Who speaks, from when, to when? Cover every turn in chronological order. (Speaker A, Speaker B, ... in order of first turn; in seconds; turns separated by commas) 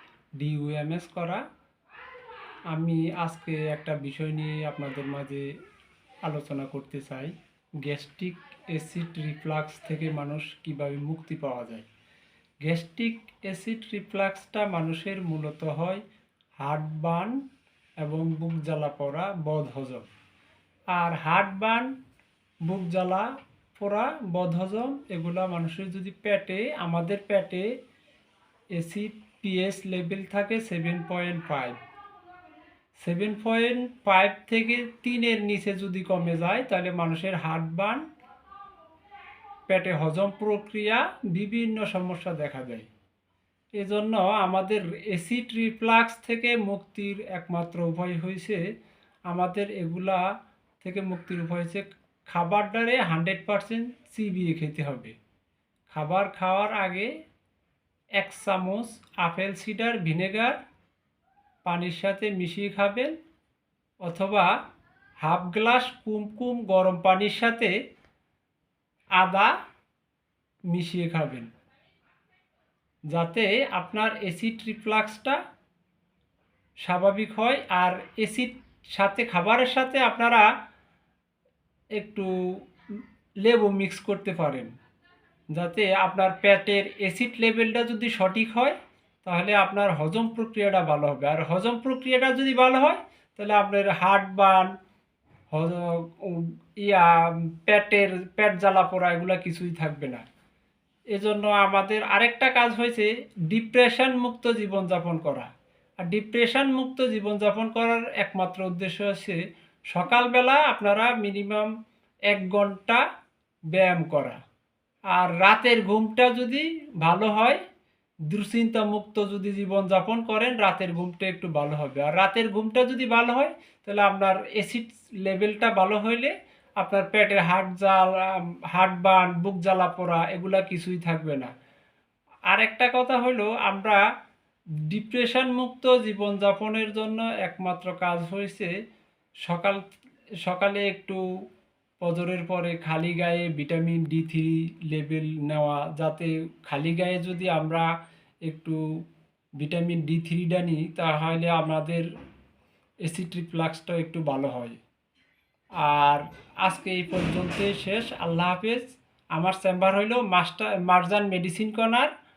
Speaker A: 0.4-1.4, Speaker A: 2.7-5.5, Speaker A: 6.2-11.9, Speaker A: 12.6-16.0, Speaker A: 16.6-17.4, Speaker A: 18.0-20.1, Speaker A: 20.9-21.9, Speaker A: 22.6-27.7, Speaker A: 28.8-31.8, Speaker A: 33.0-38.0, Speaker A: 39.7-42.9, Speaker A: 43.8-48.6, Speaker A: 49.3-50.2, Speaker A: 50.8-55.1, Speaker A: 55.9-57.1, Speaker A: 58.2-60.6, Speaker A: 61.6-63.1, Speaker A: 64.0-64.5, Speaker A: 65.2-67.7, Speaker A: 69.2-69.5, Speaker A: 70.7-71.5, Speaker A: 73.1-75.4, Speaker A: 76.8-80.5, Speaker A: 82.0-82.3, Speaker A: 83.4-84.7, Speaker A: 85.5-94.7, Speaker A: 95.5-100.2, Speaker A: 101.1-105.5, Speaker A: 106.0-109.4, Speaker A: 109.9-111.7, Speaker A: 112.3-113.0, Speaker A: 113.7-114.4, Speaker A: 115.1-117.6, Speaker A: 118.3-131.5, Speaker A: 132.5-134.0, Speaker A: 134.9-138.7, Speaker A: 139.4-139.8, Speaker A: 140.4-141.2, Speaker A: 142.0-147.9, Speaker A: 148.5-148.8, Speaker A: 149.6-152.1, Speaker A: 153.1-154.8, Speaker A: 155.8-162.1